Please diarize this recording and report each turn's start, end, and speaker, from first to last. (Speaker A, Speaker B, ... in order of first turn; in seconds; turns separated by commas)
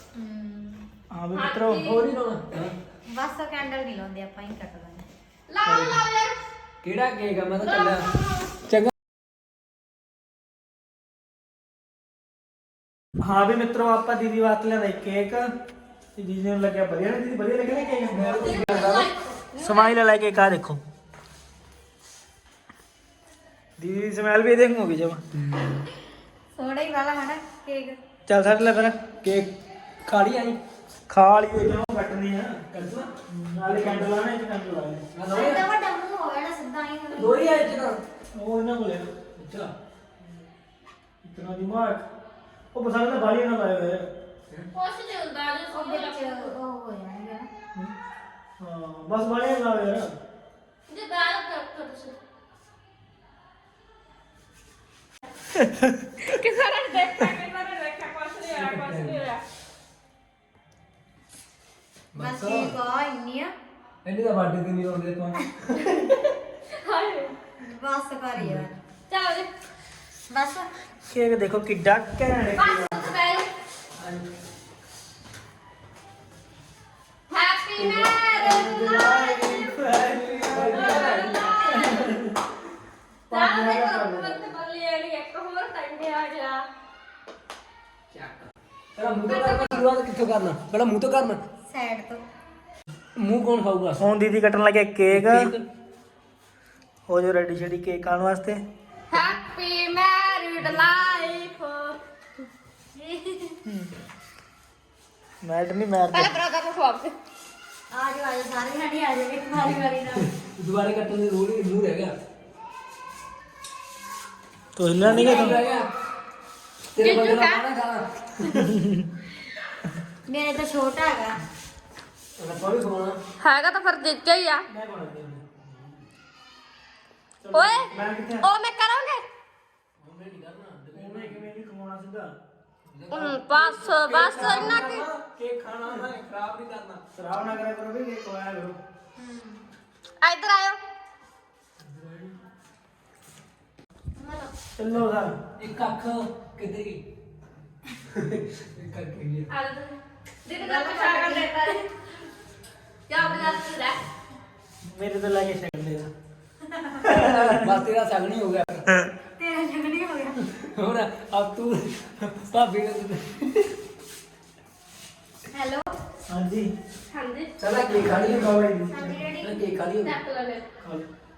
Speaker A: 0.1-0.9, Speaker B: 1.1-1.9, Speaker C: 1.3-2.1, Speaker D: 1.8-2.8, Speaker A: 3.0-5.1, Speaker C: 5.5-6.4, Speaker D: 6.8-8.1, Speaker C: 7.6-8.5, Speaker B: 13.2-15.5, Speaker B: 16.1-18.4, Speaker D: 18.1-19.1, Speaker C: 18.3-19.9, Speaker B: 19.6-20.8, Speaker B: 23.8-25.2, Speaker D: 25.4-25.9, Speaker A: 26.5-28.0, Speaker B: 28.2-29.0, Speaker D: 29.2-29.5, Speaker D: 30.0-30.6, Speaker B: 31.1-32.6, Speaker D: 32.7-33.1, Speaker B: 33.3-35.0, Speaker D: 33.6-34.1, Speaker D: 35.1-35.7, Speaker A: 35.3-37.6, Speaker D: 37.1-38.0, Speaker B: 38.3-39.1, Speaker D: 39.4-39.7, Speaker B: 41.2-42.0, Speaker B: 42.7-44.1, Speaker C: 44.7-46.5, Speaker A: 45.7-47.5, Speaker B: 48.6-50.1, Speaker C: 50.9-52.2, Speaker C: 56.2-59.4, Speaker D: 58.5-59.3, Speaker D: 62.1-62.8, Speaker A: 62.1-63.5, Speaker D: 64.0-66.0, Speaker C: 66.7-67.3, Speaker A: 67.6-68.8, Speaker D: 68.3-68.7, Speaker C: 69.1-69.5, Speaker A: 70.3-70.7, Speaker B: 71.0-73.1, Speaker C: 72.5-73.5, Speaker D: 74.0-74.2, Speaker C: 77.3-79.8, Speaker B: 77.8-81.1, Speaker D: 80.4-81.5, Speaker C: 80.7-82.2, Speaker B: 81.7-82.3, Speaker B: 83.3-84.4, Speaker C: 83.3-86.7, Speaker D: 88.1-91.4, Speaker C: 89.1-89.8, Speaker A: 91.6-92.2, Speaker D: 93.2-94.0, Speaker B: 94.0-95.5, Speaker D: 95.1-95.6, Speaker B: 97.1-98.6, Speaker C: 99.1-102.0, Speaker A: 102.9-103.6, Speaker B: 103.6-103.9, Speaker B: 105.4-106.4, Speaker C: 106.1-107.1, Speaker A: 107.9-110.3, Speaker D: 110.1-112.1, Speaker B: 114.8-115.6, Speaker D: 115.0-115.9, Speaker D: 116.9-118.7, Speaker C: 117.0-117.7, Speaker B: 118.6-119.1, Speaker A: 120.3-121.4, Speaker D: 122.4-123.2, Speaker C: 123.4-124.7, Speaker B: 124.7-125.4, Speaker B: 127.4-128.4, Speaker C: 127.5-127.9, Speaker C: 128.4-129.2, Speaker D: 130.0-131.4, Speaker B: 130.9-132.3, Speaker D: 132.9-137.0, Speaker C: 133.1-135.1, Speaker B: 134.3-134.8, Speaker B: 137.2-138.8, Speaker A: 139.2-139.6, Speaker C: 140.2-140.8, Speaker D: 141.8-142.4, Speaker A: 144.2-144.5, Speaker B: 144.8-145.3, Speaker D: 145.6-147.0, Speaker D: 148.1-149.5, Speaker C: 149.5-151.9, Speaker A: 150.6-151.7, Speaker C: 153.1-154.0, Speaker B: 154.8-156.1, Speaker B: 157.0-157.6, Speaker D: 157.1-158.9, Speaker A: 159.3-160.4, Speaker D: 160.5-163.7, Speaker A: 165.5-166.0, Speaker B: 166.3-166.7, Speaker C: 167.1-167.5, Speaker D: 167.6-168.6, Speaker B: 168.0-169.2, Speaker A: 168.9-169.6, Speaker D: 169.4-170.2, Speaker C: 170.0-170.6, Speaker B: 170.8-171.1